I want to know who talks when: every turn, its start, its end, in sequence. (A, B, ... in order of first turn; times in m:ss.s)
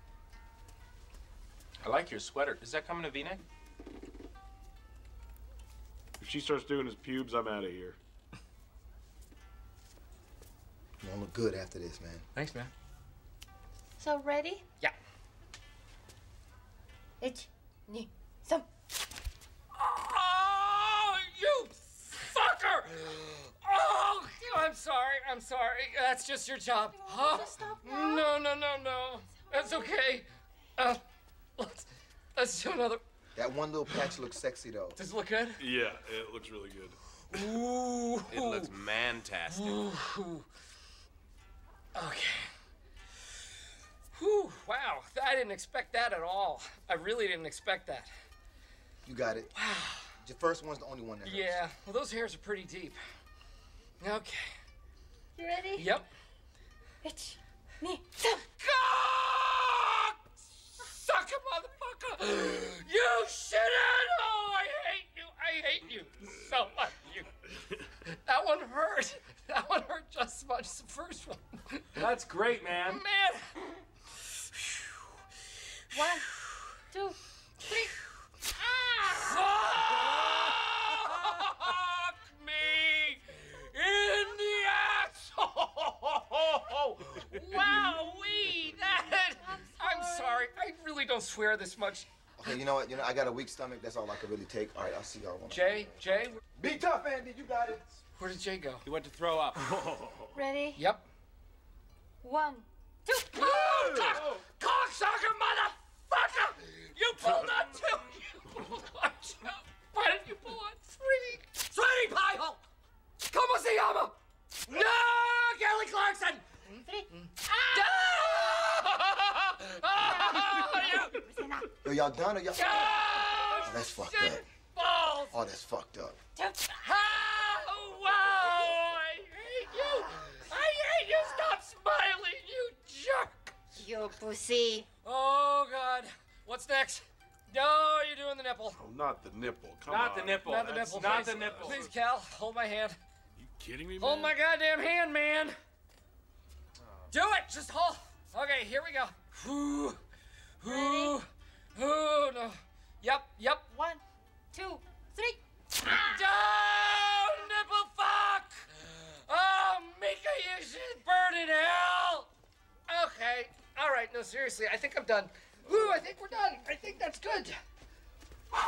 0:01.8-0:03.4 A
0:06.2-0:08.0 B
0:11.0-0:12.2 C
0:12.4-0:12.7 D
0:14.0-0:14.6 E
0:17.2-0:18.7 E
0:19.7-0:31.0 D
0:27.0-0:28.3 E
0:29.5-0:29.9 E
0:31.6-0:33.0 D
0:33.4-0:35.0 C
0:35.0-0:35.6 D
0:35.6-0:37.0 B
0:37.3-0:38.8 D
0:38.3-0:39.9 A
0:39.5-0:40.5 D
0:42.0-0:42.5 D
0:44.1-0:48.1 D
0:49.0-0:49.5 C
0:49.5-0:50.1 D
0:50.2-0:51.6 C
0:51.2-0:53.0 D
0:54.0-0:54.5 D
0:55.4-0:55.9 E
0:55.8-0:56.1 D
0:57.0-0:58.4 E
0:58.4-1:07.3 D
1:08.0-1:12.0 D
1:12.0-1:13.0 A
1:12.8-1:13.5 D
1:14.6-1:14.8 D
1:15.9-1:18.0 E
1:19.0-1:32.1 D
1:29.5-1:30.5 E
1:32.4-1:35.9 C
1:35.5-1:36.4 D
1:36.6-1:38.0 C
1:38.2-1:38.9 D
1:38.8-1:40.0 A
1:40.3-1:40.8 E
1:40.8-1:41.0 D
1:42.2-1:43.9 E
1:43.3-1:52.6 D
1:44.1-1:44.4 A
1:53.2-1:56.5 D
1:56.8-1:57.9 E
1:57.2-2:01.3 D
2:00.2-2:01.7 E
2:01.8-2:03.0 C
2:02.5-2:05.4 D
2:03.6-2:04.4 C
2:05.3-2:06.2 C
2:06.4-2:06.7 E
2:06.7-2:13.6 D
2:13.7-2:14.9 E
2:15.0-2:18.8 D
2:18.8-2:21.9 B
2:19.9-2:21.9 A
2:20.4-2:23.0 D
2:23.4-2:24.4 B
2:24.0-2:25.6 D
2:27.1-2:30.0 D
2:30.6-2:33.7 D
2:30.6-2:31.2 E
2:33.7-2:34.0 E
2:34.5-2:35.4 E
2:35.8-2:42.3 D
2:42.9-2:47.6 D